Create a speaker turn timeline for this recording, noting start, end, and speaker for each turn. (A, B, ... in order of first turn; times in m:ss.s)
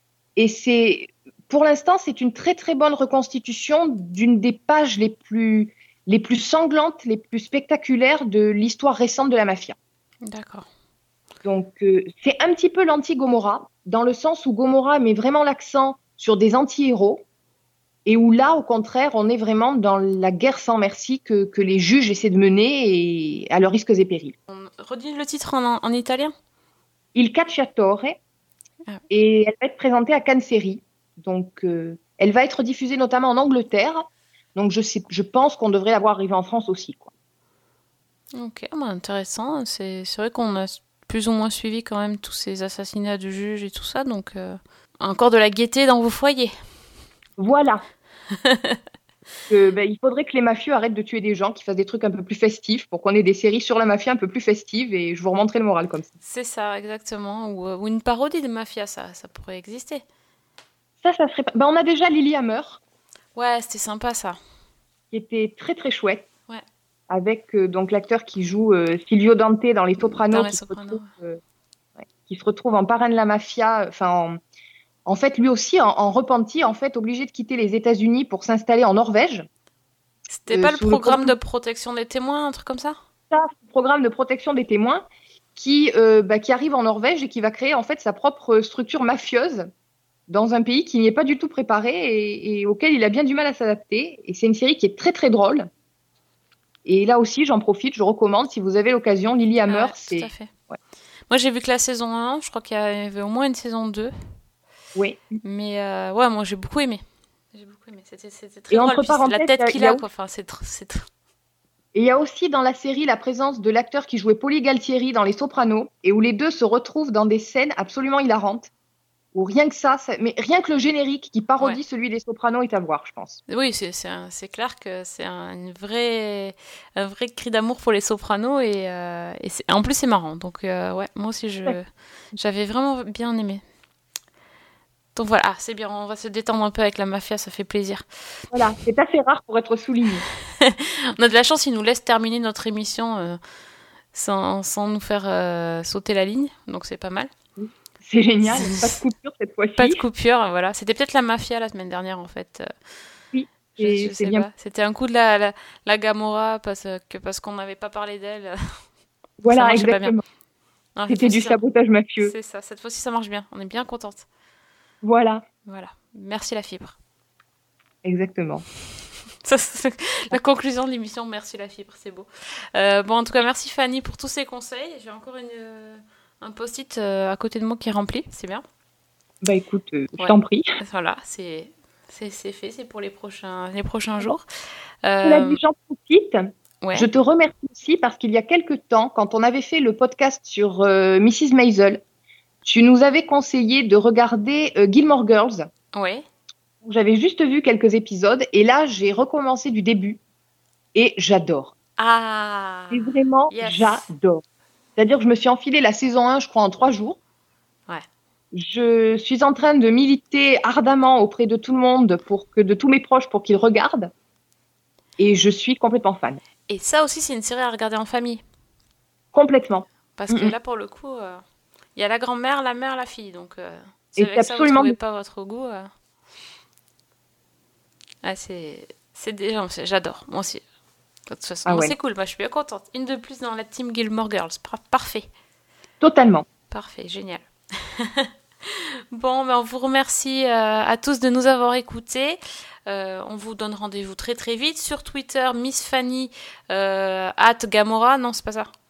0:00.4-0:09.8 A
0:10.2-0:10.7 B
0:11.4-0:17.2 A
0:18.0-0:24.3 A
0:24.5-0:26.3 B
0:27.1-0:28.2 A
0:29.1-0:37.1 A
0:38.3-0:46.5 B
0:47.4-0:47.8 A
0:48.4-0:48.8 B
0:49.5-0:56.1 A
0:56.2-1:00.0 B
1:01.0-1:02.8 A
1:03.3-1:04.4 B
1:05.1-1:06.3 A
1:07.1-1:11.4 A
1:10.0-1:11.1 B
1:12.1-1:14.4 A
1:15.0-1:19.5 A
1:20.3-1:23.0 B
1:20.5-1:21.3 A
1:23.3-1:29.7 A
1:30.3-1:35.7 A
1:36.8-1:40.8 A
1:39.7-1:40.5 B
1:41.3-1:44.1 B
1:44.9-1:45.4 A
1:45.4-1:51.1 B
1:48.7-1:50.0 A
1:51.9-1:58.7 A
1:59.3-2:03.4 A
2:03.5-2:13.6 B
2:15.2-2:18.0 B
2:18.5-2:20.2 A
2:20.6-2:23.4 B
2:24.1-2:27.3 B
2:27.6-2:30.0 A
2:28.5-2:29.0 B
2:29.8-2:32.7 B
2:33.3-2:34.5 A
2:33.8-2:38.6 B
2:39.4-2:40.2 A
2:39.4-2:40.2 B
2:41.0-2:41.6 B
2:41.1-2:42.3 A
2:42.2-2:44.2 B
2:45.0-2:45.4 A
2:45.6-2:47.0 B
2:48.0-2:48.6 A
2:49.4-2:58.6 B
2:59.4-3:00.7 A
3:00.2-3:05.6 B
3:05.2-3:12.0 A
3:06.8-3:07.1 B
3:12.6-3:15.7 A
3:15.9-3:16.2 B
3:16.8-3:20.2 A
3:20.9-3:21.7 A
3:22.0-3:24.0 B
3:22.9-3:24.4 A
3:25.0-3:27.2 A
3:28.5-3:34.1 A
3:35.2-3:36.4 A
3:36.7-3:38.4 B
3:39.3-3:40.5 A
3:40.2-3:41.4 B
3:42.0-3:45.9 B
3:44.2-3:45.0 A
3:48.2-3:50.6 B
3:51.3-3:55.2 B
3:51.6-3:51.9 A
3:56.0-3:56.4 A
3:56.7-4:08.7 B